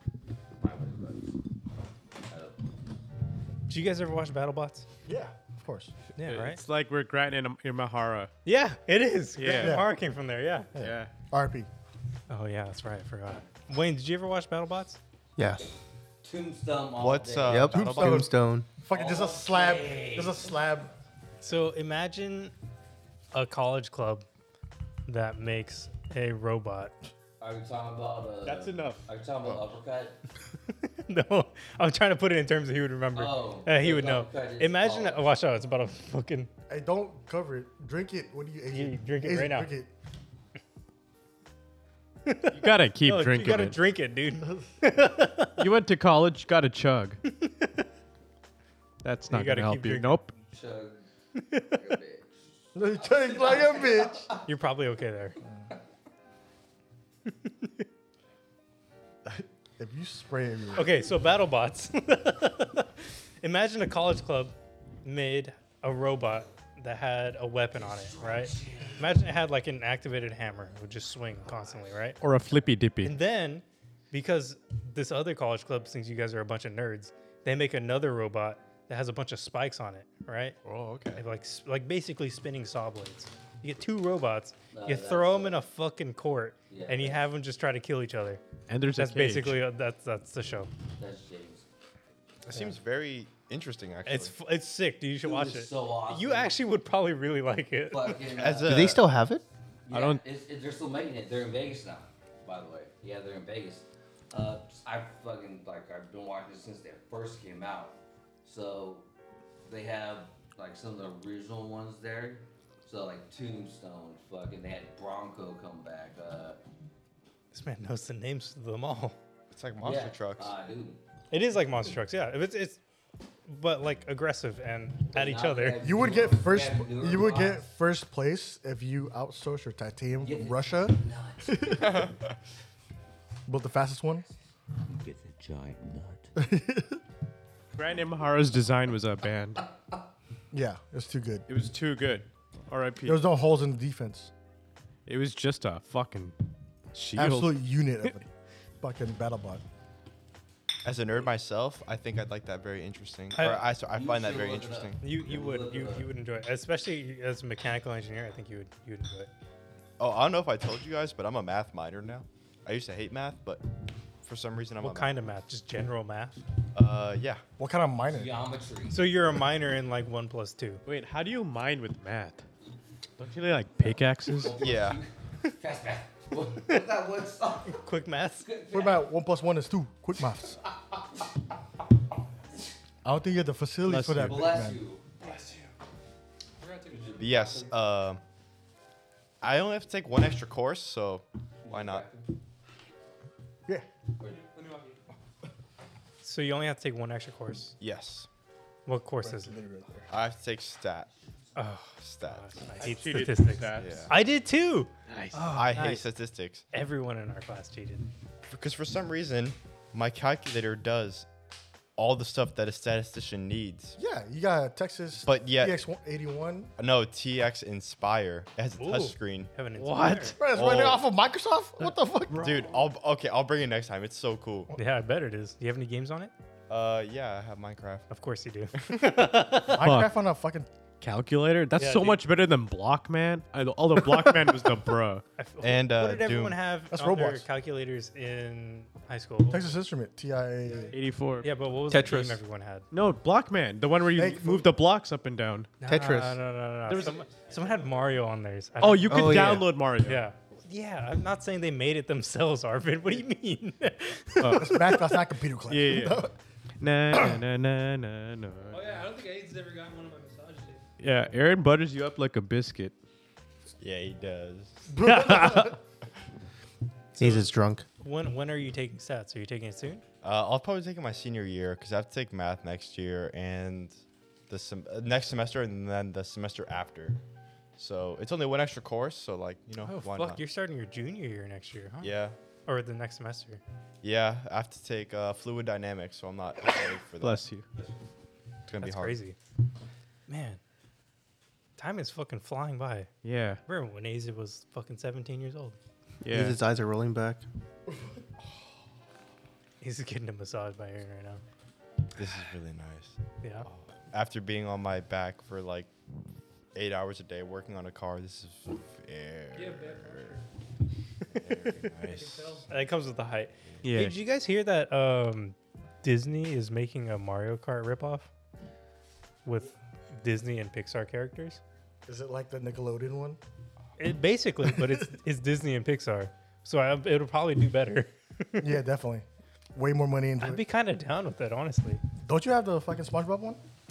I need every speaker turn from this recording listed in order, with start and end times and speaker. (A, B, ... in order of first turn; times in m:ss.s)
0:00.6-0:01.4 A
0:02.3-0:02.6 A
0:03.7-0:04.9 B
0:05.1-0:05.9 C
0:06.2-0:06.6 B
0:06.2-0:08.3 D
0:08.4-0:10.7 B
0:09.4-0:09.8 D
0:09.5-0:09.9 C
0:10.8-0:11.7 C
0:10.8-0:11.1 D
0:12.3-0:15.0 B
0:15.4-0:15.6 E
0:16.2-0:17.7 A
0:17.0-0:18.3 F
0:17.5-0:18.7 E
0:17.7-0:20.9 C
0:18.9-0:20.6 A
0:21.4-0:22.5 B
0:23.3-0:24.3 B
0:25.1-0:27.0 B
0:27.4-0:30.2 A
0:28.4-0:29.1 D
0:30.8-0:36.5 B
0:33.1-0:35.4 A
0:36.7-0:39.9 C
0:38.7-0:39.7 B
0:42.3-0:45.6 B
0:42.5-0:43.8 D
0:45.6-0:47.2 D
0:47.2-0:47.8 B
0:49.0-0:50.3 D
0:49.3-0:50.2 B
0:50.4-0:51.1 A
0:51.5-0:51.8 B
0:51.7-0:54.4 A
0:52.8-0:54.3 C
0:54.5-0:55.4 B
0:57.3-0:57.8 B
0:59.3-1:01.0 C
1:00.8-1:12.2 B
1:07.8-1:09.2 A
1:12.2-1:13.2 D
1:13.0-1:20.6 B
1:20.6-1:21.2 F
1:21.2-1:30.7 B
1:24.7-1:25.6 A
1:26.7-1:27.3 A
1:28.7-1:29.6 D
1:31.0-1:31.7 A
1:32.4-1:34.4 F
1:34.1-1:38.2 B
1:35.2-1:36.6 A
1:37.9-1:39.0 A
1:38.3-1:39.0 F
1:38.7-1:39.4 E
1:39.9-1:49.1 A
1:39.9-1:40.2 D
1:49.7-1:56.6 A
1:57.5-1:59.2 B
1:59.5-2:00.5 F
1:59.8-2:01.0 A
2:01.3-2:02.8 B
2:03.5-2:05.8 B
2:05.1-2:07.6 A
2:05.8-2:12.0 C
2:10.2-2:11.8 A
2:11.8-2:12.3 F
2:13.5-2:14.2 C
2:14.3-2:16.3 A
2:16.4-2:17.0 C
2:17.8-2:19.7 D
2:20.5-2:21.5 C
2:21.5-2:23.2 D
2:23.0-2:24.3 C
2:25.1-2:26.4 D
2:26.9-2:28.1 D
2:27.2-2:28.2 C
2:28.8-2:29.6 C
2:30.8-2:35.0 F
2:33.4-2:33.6 B
2:33.4-2:36.1 A
2:35.0-2:39.3 B
2:40.0-2:43.6 F
2:44.2-2:45.2 F
2:44.8-2:46.4 B
2:46.8-2:47.4 F
2:47.6-2:48.3 C
2:48.0-2:49.0 A
2:48.9-2:50.8 B
2:50.8-2:52.4 D
2:53.2-2:54.7 D
2:53.8-2:57.8 A
2:54.5-2:55.0 F
2:57.7-2:58.5 B
2:58.4-2:59.0 A
2:58.7-3:00.6 C
3:03.0-3:04.8 C
3:03.8-3:04.6 D
3:04.2-3:05.4 A
3:05.2-3:05.7 G
3:06.6-3:07.5 G
3:06.9-3:07.7 A
3:07.2-3:08.2 F
3:09.4-3:12.1 F
3:11.6-3:12.3 A
3:14.3-3:15.0 G
3:16.2-3:17.8 B
3:17.8-3:18.3 F
3:18.9-3:19.6 B
3:19.2-3:20.1 C
3:20.1-3:21.1 F
3:21.6-3:26.0 B
3:22.0-3:22.6 F
3:22.7-3:24.1 D
3:23.8-3:24.1 F
3:25.1-3:25.6 D
3:25.5-3:26.6 F
3:26.7-3:28.1 B
3:28.5-3:31.3 F
3:32.0-3:34.0 F
3:34.0-3:36.7 C
3:35.2-3:35.8 F
3:36.8-3:39.5 F
3:38.8-3:40.4 B
3:39.8-3:40.4 D
3:40.2-3:42.5 C
3:40.5-3:41.0 F
3:42.3-3:44.8 F
3:42.4-3:42.9 G
3:44.7-3:46.3 B
3:46.7-3:48.1 F
3:48.1-3:49.8 B
3:48.8-3:49.0 F
3:49.7-3:50.7 C
3:49.7-3:50.1 D
3:51.0-3:55.2 D
3:51.8-3:52.2 B
3:55.4-3:59.7 B
3:55.6-3:56.6 F
3:56.9-3:57.5 C
3:59.5-4:01.0 C
4:00.6-4:01.0 G
4:00.9-4:02.3 D
4:01.4-4:02.9 B
4:01.9-4:02.4 E
4:02.9-4:05.7 D
4:04.1-4:04.7 C
4:05.8-4:14.8 B
4:05.9-4:06.4 E
4:06.9-4:07.2 D
4:07.3-4:07.8 G
4:08.8-4:10.2 D
4:09.1-4:09.7 E
4:14.4-4:14.9 D
4:14.4-4:16.3 C
4:15.7-4:16.2 D
4:16.8-4:18.9 D
4:18.7-4:20.9 G
4:21.0-4:23.0 D
4:23.8-4:24.9 F
4:24.9-4:25.8 C
4:25.0-4:25.8 B
4:27.1-4:30.0 B
4:27.2-4:27.9 E
4:30.2-4:34.0 F
4:34.5-4:37.2 F
4:37.8-4:40.4 F
4:39.8-4:42.2 B
4:42.0-4:42.4 F
4:42.7-4:43.6 B
4:44.0-4:47.4 F
4:47.2-4:47.7 D
4:48.7-4:49.2 F
4:48.8-4:49.4 B
4:50.3-4:50.6 B
4:51.8-4:53.1 B
4:53.2-4:53.6 D
4:53.6-4:55.8 B
4:56.2-4:56.6 D
4:56.3-4:57.4 E
4:59.8-5:01.4 B
5:02.2-5:05.9 F
5:03.4-5:03.7 B
5:06.8-5:10.4 F
5:09.5-5:10.4 G
5:11.3-5:12.6 F
5:11.3-5:11.9 B
5:12.0-5:12.7 G
5:12.7-5:18.3 B
5:13.8-5:14.2 D
5:19.4-5:21.6 B
5:22.1-5:23.4 C
5:24.0-5:28.8 B
5:24.7-5:25.0 C
5:28.6-5:30.6 C
5:30.4-5:32.0 B
5:32.2-5:33.6 C